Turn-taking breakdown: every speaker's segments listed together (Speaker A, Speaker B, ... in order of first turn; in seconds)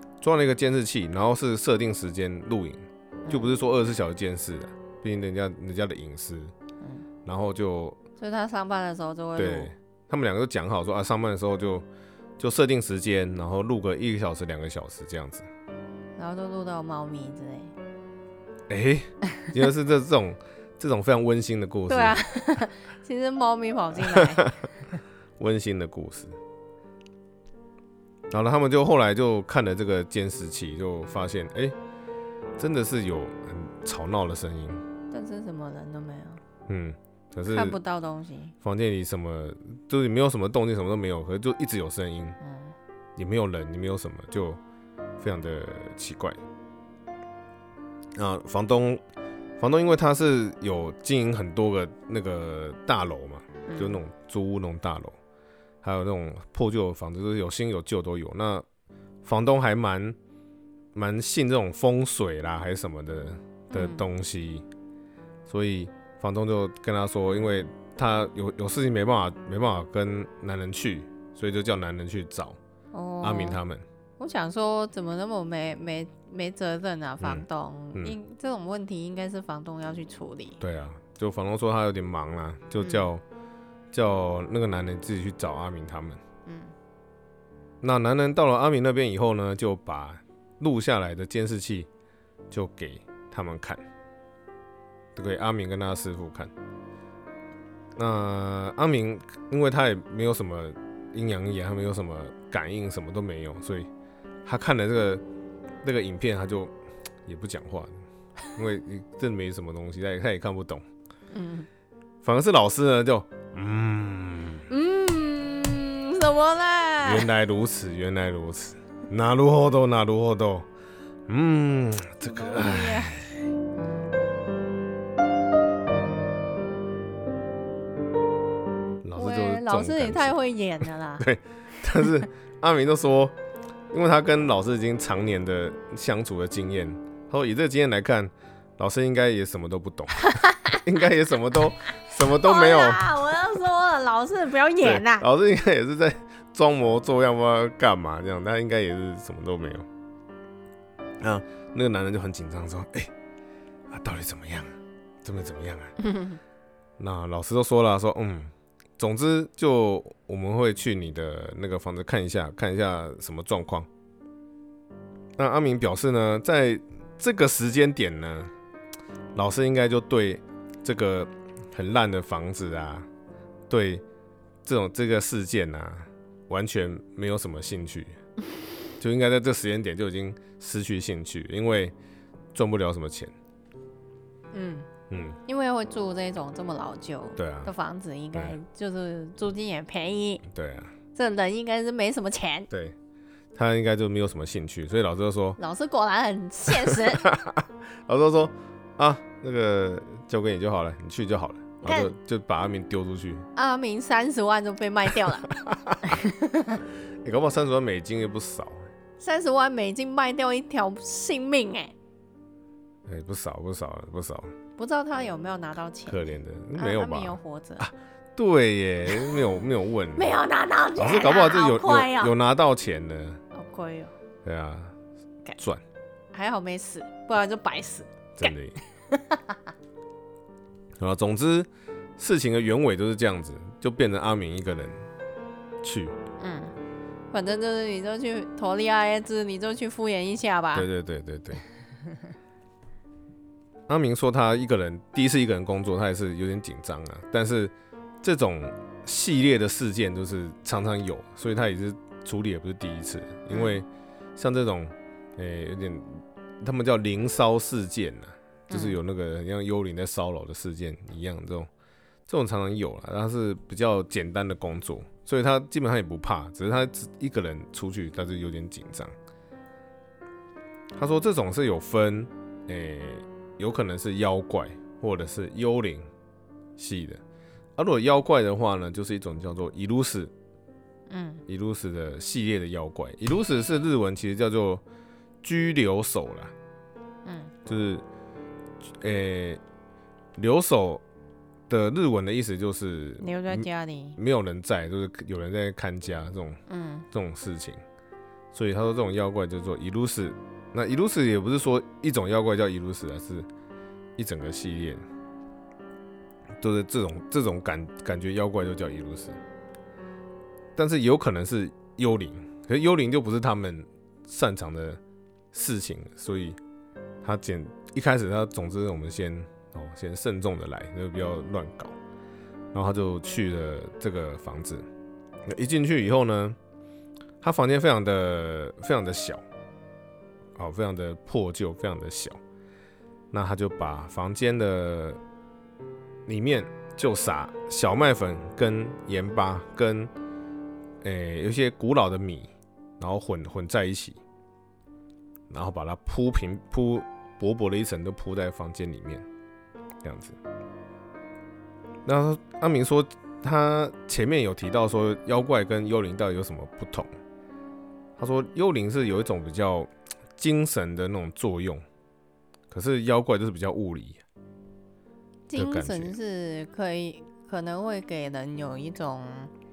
Speaker A: 0.2-6.5, 7.2-8.0, 9.3-11.8, 12.4-15.4, 18.7-22.2, 24.0-24.5, 25.4-26.3, 28.3-31.8, 32.6-34.8, 36.7-37.8, 38.6-42.4, 43.2-44.6, 45.2-46.4, 48.1-49.0, 49.6-55.2, 55.8-58.6, 59.2-60.1, 60.9-64.7, 65.5-72.6, 73.2-73.8, 77.2-78.2, 80.6-83.2, 83.9-86.2, 87.8-91.9, 92.5-93.8, 95.2-96.5, 98.0-103.9, 104.4-105.2, 105.8-106.7, 107.2-108.0, 108.5-110.8, 112.2-114.7, 117.0-120.7, 121.3-123.4, 129.0-130.3, 131.2-133.3, 133.9-143.0, 144.8-149.9, 151.2-153.1, 153.9-156.0, 157.0-163.9, 165.4-168.5, 169.3-173.1, 173.7-174.0, 174.6-178.2, 179.0-181.9, 182.5-183.3, 185.1-185.4, 187.3-187.7, 190.4-190.9, 192.7-192.9, 193.5-195.6, 196.8-203.5, 205.5-206.1, 207.2-208.9, 213.1-214.5, 216.1-220.3, 221.0-223.4, 224.4-224.9, 225.6-225.8, 228.4-228.8, 231.0-235.1, 235.8-236.2, 240.7-241.6, 243.9-261.7, 262.3-269.1, 270.9-276.1, 276.8-277.2, 277.8-280.3, 281.5-284.8, 285.4-286.5, 287.6-288.0, 289.0-289.6, 290.4-291.0, 291.7-296.6, 297.1-297.8, 298.5-303.5, 304.2-305.0, 306.6-309.4, 310.8-315.0, 315.5-316.6, 317.2-321.9, 322.7-324.8, 325.5-326.6, 327.4-329.4, 330.6-332.4, 333.3-335.2, 336.3-340.1, 341.0-344.2, 345.5-349.2, 350.0-350.4, 352.1-357.1, 358.2-361.8, 362.7-364.2, 365.5-366.1
Speaker B: 3.2-3.5, 8.2-9.7, 16.1-17.7, 21.9-24.9, 35.1-36.4, 37.5-38.5, 42.4-42.8, 53.6-54.0, 63.7-64.0, 72.9-73.6, 74.2-80.6, 82.8-83.1, 86.5-86.7, 111.3-111.7, 114.7-117.3, 122.2-123.2, 129.2-131.2, 140.2-140.8, 142.3-145.2, 156.0-156.4, 184.5-184.9, 185.5-190.4, 191.1-192.7, 195.6-197.2, 201.8-202.1, 203.5-205.5, 206.0-206.8, 209.2-211.9, 214.8-217.8, 219.1-219.5, 220.1-222.3, 223.5-224.1, 226.3-229.6, 236.4-236.7, 237.3-240.9, 253.5-253.8, 258.7-259.0, 281.1-281.4, 287.2-287.5, 293.2-294.2, 296.7-297.1, 365.5-369.5